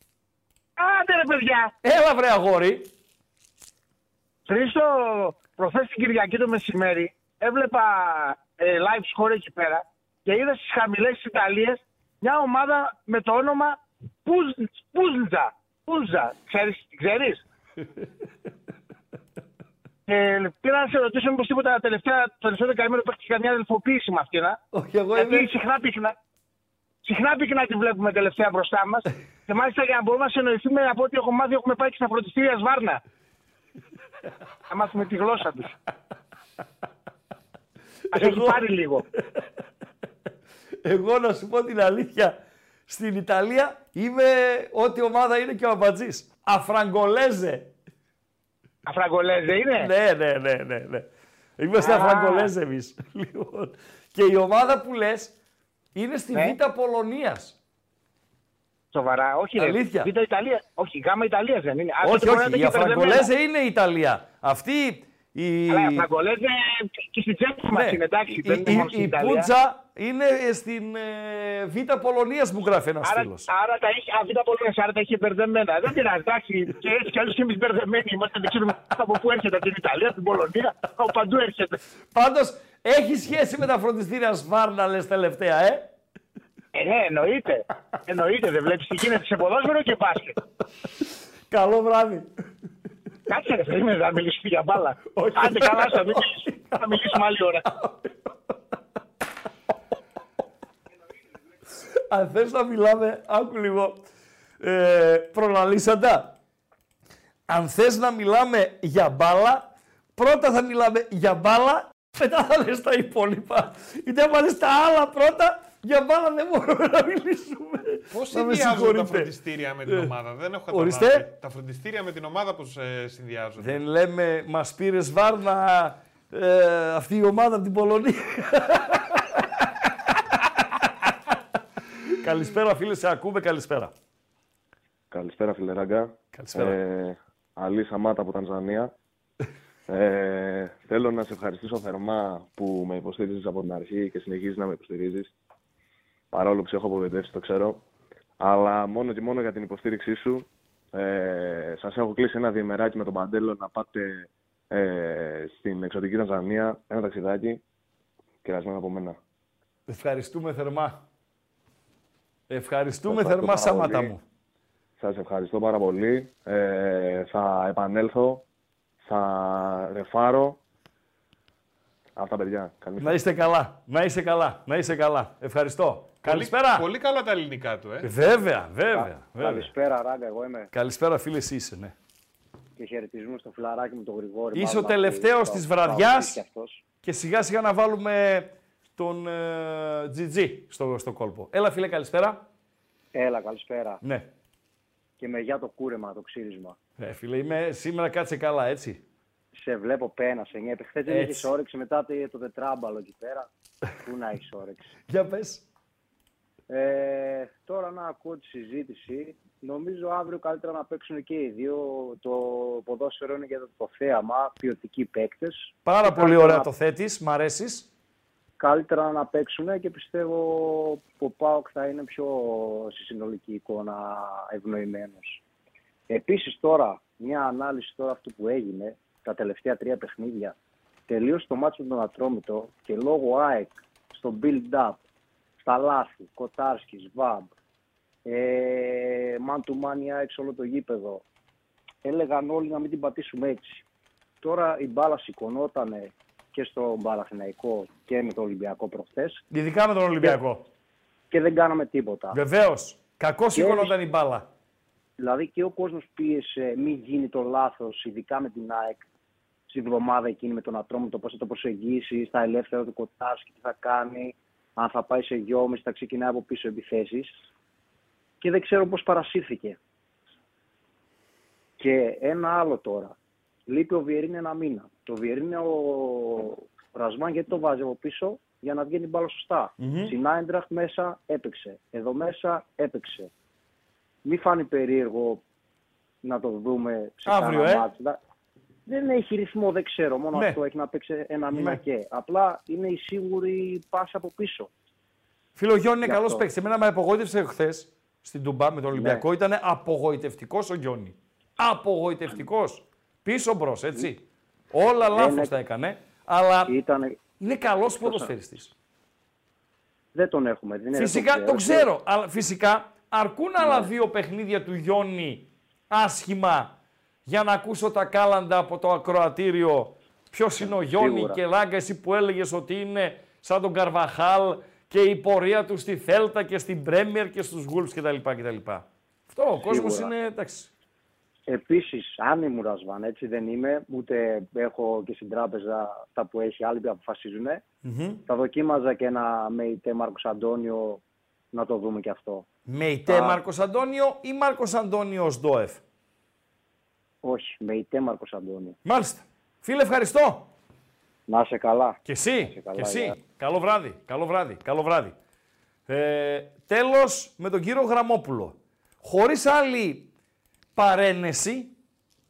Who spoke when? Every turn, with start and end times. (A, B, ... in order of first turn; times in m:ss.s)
0:00.8-0:01.7 A
0:01.8-0:02.9 B
0:04.4-0:17.4 A
0:20.1-0:24.6 A
0:24.7-0:25.5 B
0:25.2-0:26.1 A
0:27.0-0:33.0 A
0:34.7-0:35.7 A
0:38.1-0:38.6 B
0:38.1-0:39.0 A
0:40.8-0:42.4 B
0:42.9-0:47.7 B
0:48.9-0:49.9 A
0:49.8-0:51.1 B
0:51.6-0:55.3 B
0:51.8-0:52.5 A
0:55.9-0:57.6 B
0:58.9-1:03.3 A
0:59.6-1:00.1 B
1:02.0-1:06.1 B
1:05.7-1:09.5 A
1:07.7-1:13.5 B
1:13.0-1:21.8 A
1:22.1-1:25.9 B
1:26.7-1:30.4 A
1:31.5-1:32.3 B
1:33.3-1:37.7 A
1:35.1-1:38.1 B
1:42.1-1:44.0 B
1:44.6-1:46.4 B
1:47.5-1:59.3 B
1:58.1-2:03.8 C
1:59.9-2:00.1 B
2:00.7-2:01.3 B
2:03.6-2:09.2 B
2:12.2-2:13.9 B
2:15.1-2:18.9 D
2:16.4-2:16.8 B
2:19.9-2:25.3 D
2:26.3-2:27.8 D
2:28.4-2:37.6 D
2:38.4-2:39.2 D
2:39.9-2:41.0 B
2:42.5-2:44.2 B
2:43.1-2:44.2 D
2:45.0-2:48.4 D
2:49.0-2:50.6 D
2:52.2-2:53.2 D
2:53.0-2:56.9 B
2:56.2-2:58.1 C
2:58.0-2:59.7 B
2:58.9-3:00.7 E
3:00.7-3:01.9 B
3:02.8-3:06.8 E
3:04.6-3:06.4 B
3:07.0-3:12.4 B
3:13.2-3:14.0 E
3:14.0-3:14.3 B
3:15.2-3:16.8 E
3:17.0-3:19.0 B
3:19.6-3:23.5 E
3:21.1-3:21.5 B
3:24.0-3:24.9 E
3:25.1-3:25.6 B
3:26.7-3:36.7 E
3:35.8-3:37.9 B
3:38.6-3:45.4 E
3:46.1-3:50.6 E
3:51.1-3:55.0 E
3:55.6-3:57.5 E
3:58.3-4:01.2 E
4:02.0-4:03.8 E
4:04.4-4:09.4 E
4:09.5-4:10.6 B
4:11.3-4:12.4 E
4:12.3-4:14.5 B
4:13.6-4:13.9 E
4:15.2-4:19.0 E
4:19.7-4:27.3 E
4:28.4-4:29.8 E
4:31.8-4:33.2 E
4:33.7-4:43.3 E
4:39.8-4:40.2 B
4:44.2-4:45.4 E
4:46.2-4:48.2 E
4:47.3-4:47.9 B
4:48.9-4:54.7 E
4:50.3-4:50.6 B
4:51.5-4:51.8 B
4:55.6-5:04.2 B
4:56.0-4:56.4 E
4:58.9-4:59.2 E
5:04.7-5:06.7 B
5:05.1-5:05.5 E
5:06.7-5:07.2 E
5:07.4-5:08.7 B
5:08.0-5:08.3 E
5:10.1-5:11.9 E
5:10.9-5:16.7 B
5:13.6-5:13.9 E
5:17.3-5:30.7 B
5:20.6-5:21.4 E
5:29.6-5:30.1 E
5:31.5-5:37.6 E
5:37.8-5:38.2 B
5:38.3-5:41.0 E
5:41.5-5:42.4 E
5:42.7-5:45.8 B
5:43.1-5:43.4 E
5:47.2-5:48.8 E
5:48.8-5:50.5 B
5:51.3-5:53.2 E
5:52.0-5:55.2 B
5:55.9-6:00.1 B
6:00.8-6:01.7 B